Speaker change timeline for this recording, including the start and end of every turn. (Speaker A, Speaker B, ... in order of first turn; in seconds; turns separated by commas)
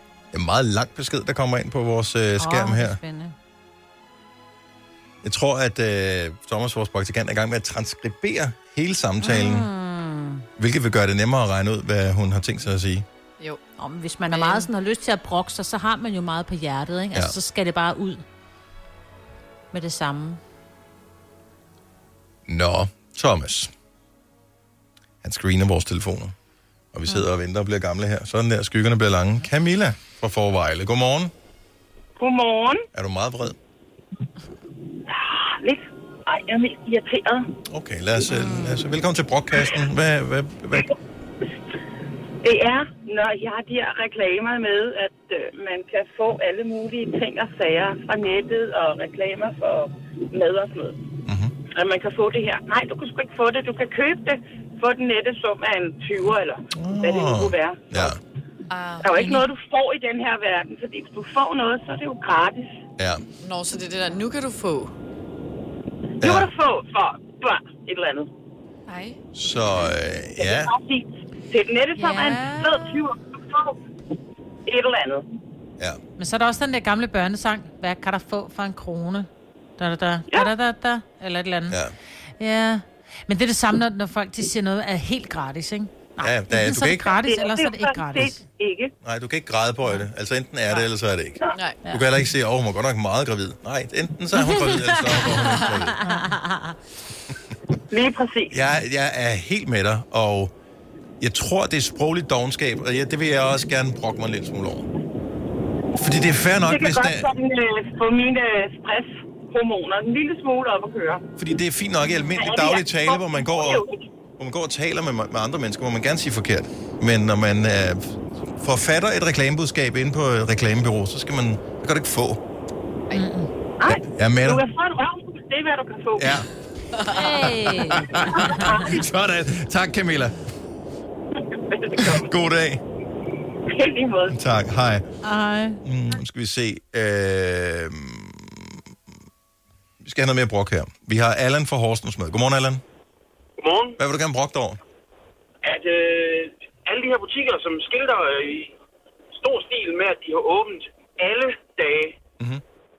Speaker A: 0.3-3.0, Speaker B: 2.4-3.3, Speaker A: 5.2-9.7, Speaker B: 9.2-10.4, Speaker A: 10.6-13.1, Speaker B: 13.8-18.2, Speaker C: 14.3-14.7, Speaker B: 19.7-20.4, Speaker A: 22.5-23.7, Speaker A: 25.2-26.3, Speaker A: 26.9-31.3, Speaker D: 32.2-32.9, Speaker A: 32.9-33.5, Speaker D: 35.0-37.5, Speaker A: 37.7-40.9, Speaker D: 42.4-51.1, Speaker A: 51.2-51.5, Speaker D: 51.6-58.1, Speaker A: 56.7-58.2, Speaker C: 58.7-59.4, Speaker D: 59.0-62.8, Speaker A: 63.0-63.2, Speaker C: 63.4-64.9, Speaker A: 66.2-66.5, Speaker D: 66.2-68.3, Speaker C: 68.9-69.2, Speaker A: 69.3-70.7, Speaker D: 70.4-73.8, Speaker E: 72.0-73.0, Speaker D: 74.7-75.2, Speaker E: 76.2-81.8, Speaker A: 81.7-81.9, Speaker E: 82.4-88.4, Speaker A: 86.2-87.1, Speaker D: 87.2-88.9, Speaker A: 89.0-91.4, Speaker C: 91.5-91.8, Speaker A: 91.9-95.9, Speaker B: 96.0-96.7, Speaker E: 96.0-96.3, Speaker D: 97.9-98.6, Speaker A: 98.5-100.5, Speaker A: 101.2-104.9, Speaker A: 106.0-107.3, Speaker D: 106.6-111.2, Speaker A: 111.4-113.8, Speaker D: 112.3-114.0, Speaker A: 114.4-122.4, Speaker E: 123.1-123.5, Speaker D: 123.8-126.4, Speaker A: 123.9-124.6, Speaker A: 126.2-126.5, Speaker C: 127.0-127.2, Speaker B: 127.1-128.8, Speaker A: 127.7-130.4, Speaker D: 128.6-129.0, Speaker D: 131.7-132.3, Speaker A: 132.0-132.8, Speaker D: 133.7-134.3, Speaker A: 134.3-135.1, Speaker E: 135.2-135.8, Speaker A: 135.8-138.9, Speaker A: 140.0-142.8, Speaker F: 143.6-144.0, Speaker A: 144.0-144.8, Speaker F: 145.6-148.7, Speaker F: 149.4-152.2